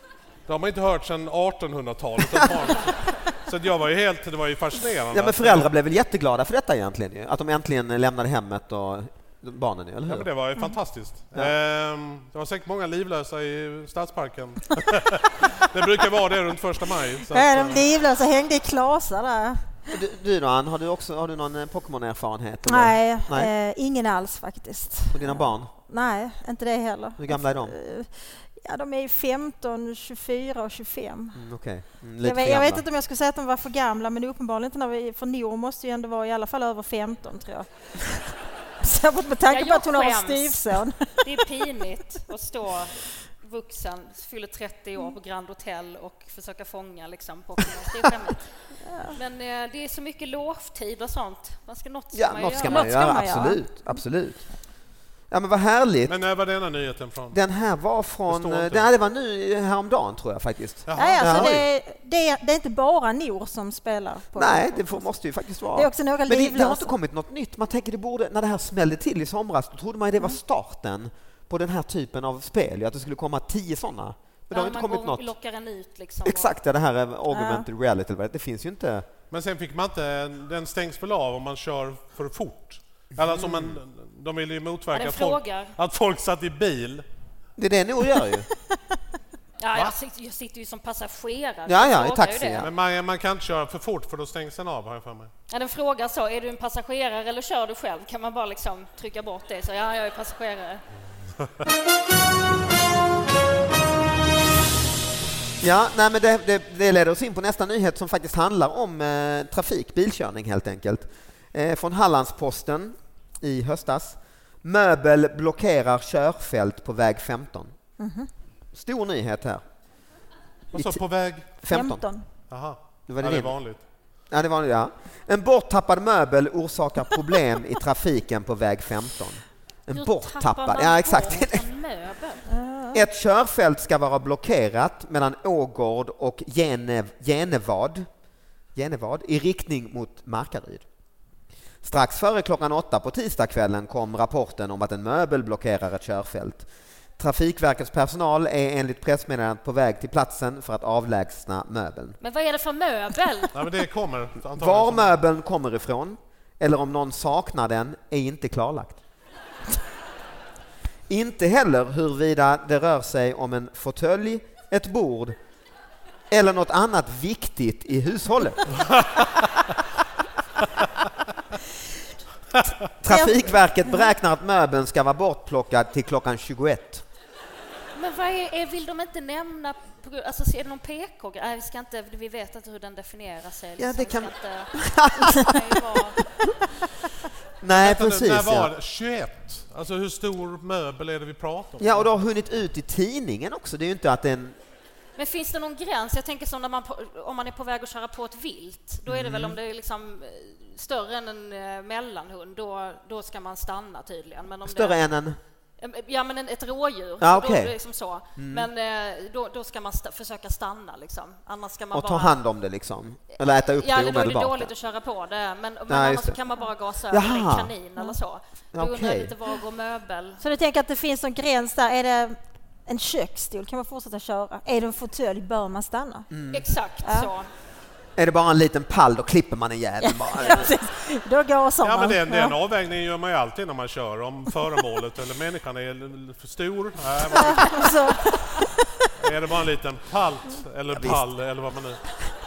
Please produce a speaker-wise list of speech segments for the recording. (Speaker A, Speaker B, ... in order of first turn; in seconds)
Speaker A: 0.5-5.7, 10.1-17.8, 56.1-57.4, 58.3-58.9, 60.9-61.5, 79.3-87.0, 92.6-95.3, 120.7-121.5, 122.5-123.8, 153.5-155.1, 168.9-169.2, 187.7-192.1, 231.8-238.0, 239.2-242.0
Speaker B: 5.1-10.3, 19.9-23.5, 25.1-25.7, 27.2-27.7, 31.3-32.9, 52.1-54.4, 55.3-56.1, 57.3-61.6, 64.3-75.3, 76.2-79.1, 83.2-83.8, 87.6-88.5, 91.7-92.7, 105.6-117.7, 118.7-119.6, 120.7-121.0, 121.6-122.0, 123.1-123.6, 124.3-131.6, 132.9-138.1, 138.7-140.8, 141.8-152.2, 154.6-159.0, 161.1-165.4, 166.3-168.8, 173.0-177.0, 183.8-186.0, 187.6-188.7, 191.8-194.6, 199.1-199.6, 204.6-205.4, 207.2-207.7, 208.3-208.7, 211.9-214.7, 215.9-216.4, 217.1-217.7, 218.7-219.3, 226.3-226.7, 228.2-230.7, 240.9-241.2
Speaker C: 17.3-19.6, 22.6-31.4, 32.2-41.2, 48.8-49.2, 52.7-54.0, 60.9-65.0, 65.7-66.9, 77.3-77.7, 118.0-118.3, 121.7-122.2, 132.5-133.1, 173.1-174.1, 220.4-226.3, 227.0-227.3, 230.0-232.5, 237.3-238.8
Speaker D: 39.5-48.6, 49.1-53.3, 74.5-76.5, 84.9-85.7, 89.6-92.7, 95.5-100.8, 129.9-132.4, 152.2-153.6, 177.9-186.2, 195.2-205.0, 205.8-212.4, 213.3-220.4, 226.5-227.5